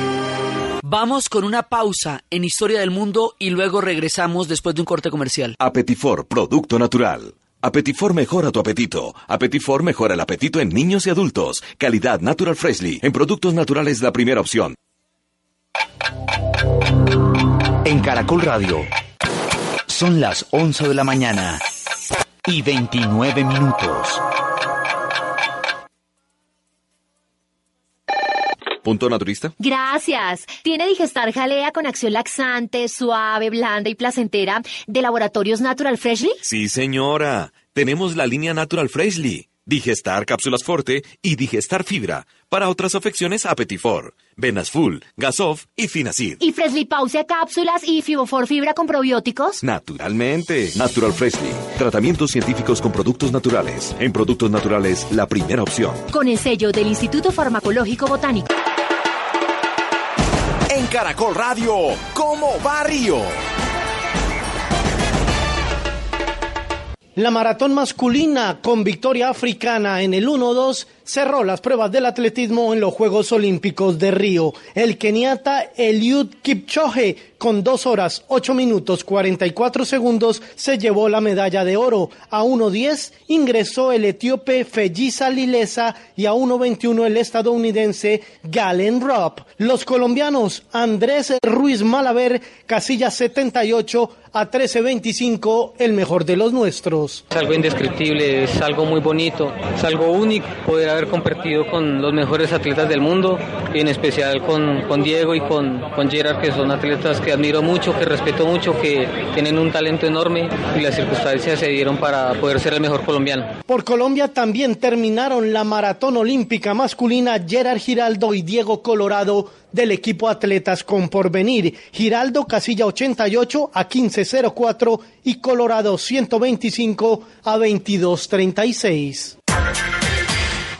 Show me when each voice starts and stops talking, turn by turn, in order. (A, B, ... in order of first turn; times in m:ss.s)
0:00.8-0:05.6 A
0:05.6-0:14.8 B
0:17.8-0:18.9 C
0:19.9-0:21.6 C
0:22.4-0:24.2 C
0:28.8-0:29.5 B
0:29.6-0:36.4 D
0:36.4-0:46.4 B
0:46.4-0:49.6 D
0:49.6-0:56.0 B
0:56.1-0:58.4 D
1:00.7-1:03.4 E
1:07.2-1:37.2 F
1:37.3-1:53.5 G
1:53.7-2:09.3 F